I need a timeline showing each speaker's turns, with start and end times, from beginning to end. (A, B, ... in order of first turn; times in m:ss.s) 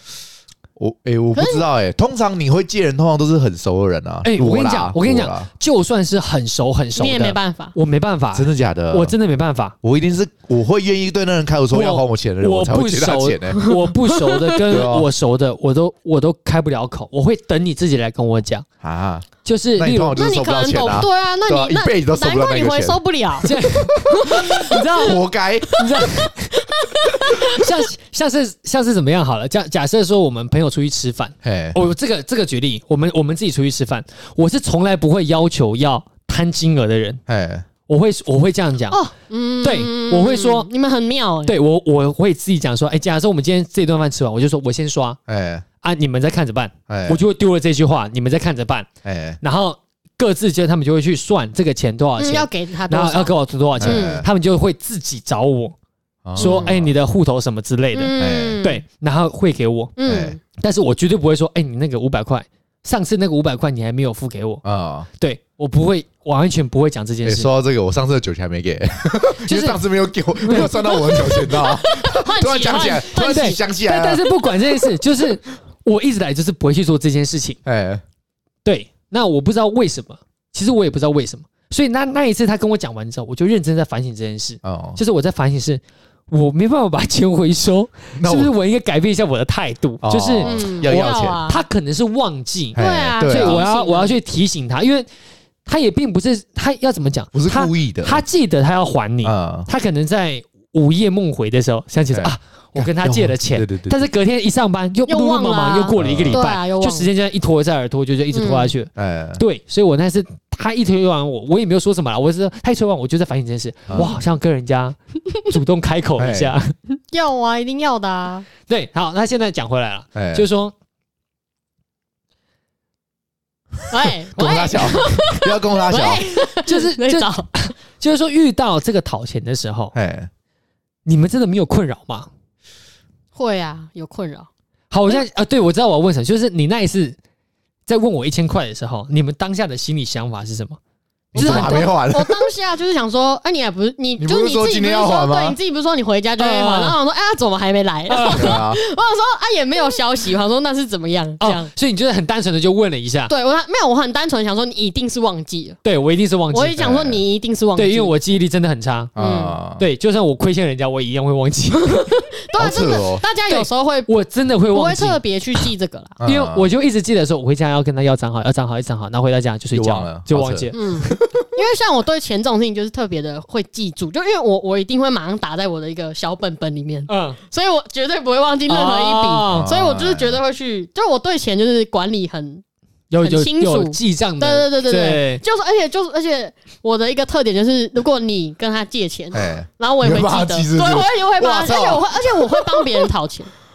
0:00.8-0:05.5 A
0:01.3-0:01.6 B
0:04.2-0:09.8 C
0:07.0-0:07.7 B
0:08.3-0:09.1 A
0:09.8-0:13.7 A
0:11.7-0:18.6 C
0:13.6-0:14.6 B
0:14.6-0:15.1 A
0:18.8-0:23.0 A
0:19.4-0:20.2 C
0:20.1-0:23.5 B
0:23.4-0:25.2 C
0:24.0-0:25.8 A
0:24.1-0:25.1 B
0:25.7-0:26.6 C
0:26.6-0:27.7 B
0:27.1-0:37.2 C
0:31.4-0:31.8 A
0:37.3-0:37.7 A
0:37.9-0:39.0 C
0:38.9-0:41.5 B
0:39.6-0:40.7 C
0:41.4-0:45.2 C
0:45.3-0:45.6 A
0:45.8-0:48.9 C
0:46.9-0:47.2 A
0:49.0-0:49.4 A
0:49.4-0:55.7 C
0:52.2-0:54.2 B
0:53.8-0:54.3 A
0:56.2-0:56.9 A
0:56.4-1:00.0 C
0:56.4-0:56.7 B
0:57.9-0:58.8 B
0:58.2-0:58.6 A
1:00.0-1:00.4 B
1:00.0-1:00.4 A
1:00.5-1:04.6 C
1:04.6-1:05.1 A
1:05.2-1:07.5 C
1:07.2-1:14.2 A
1:09.4-1:09.8 C
1:10.4-1:10.7 C
1:10.5-1:13.6 B
1:13.2-1:17.6 C
1:17.6-1:18.0 A
1:18.6-1:35.1 C
1:24.6-1:25.0 A
1:28.2-1:28.5 A
1:30.0-1:31.4 A
1:30.4-1:31.6 B
1:32.7-1:33.6 A
1:32.8-1:34.2 B
1:35.6-1:56.7 C
1:37.3-1:38.2 A
1:39.2-1:39.7 A
1:42.1-1:44.0 A
1:45.1-1:47.1 B
1:46.0-1:46.4 A
1:48.3-1:48.7 B
1:49.0-1:49.4 A
1:53.9-1:54.1 A
1:56.2-1:56.5 A
1:57.1-1:58.5 B
1:58.7-2:00.7 C
2:00.1-2:00.4 A
2:03.9-2:07.5 B
2:04.4-2:06.2 A
2:06.5-2:09.9 C
2:09.9-2:10.3 A
2:11.0-2:12.3 C
2:13.3-2:14.5 B
2:14.9-2:17.2 C
2:17.9-2:20.8 C
2:21.3-2:22.4 A
2:21.3-2:31.7 B
2:21.3-2:21.9 C
2:24.2-2:25.6 A
2:26.4-2:27.0 C
2:28.1-2:28.6 C
2:28.3-2:28.8 A
2:31.4-2:33.3 C
2:33.3-2:35.8 B
2:35.8-2:37.1 C
2:36.5-2:38.1 B
2:36.8-2:37.2 A
2:37.8-2:39.1 C
2:39.2-2:39.8 A
2:39.2-2:39.6 B
2:39.8-2:42.1 C
2:41.9-2:44.1 B
2:42.6-2:43.2 A
2:43.5-2:45.6 C
2:44.7-2:46.2 B
2:46.2-2:46.6 A
2:46.2-2:50.8 C
2:49.7-2:51.4 A
2:50.7-3:02.6 B
2:57.1-2:57.4 C
2:58.7-2:59.7 C
2:59.5-3:00.4 A
3:03.1-3:05.4 C
3:03.2-3:13.5 B
3:09.3-3:13.1 A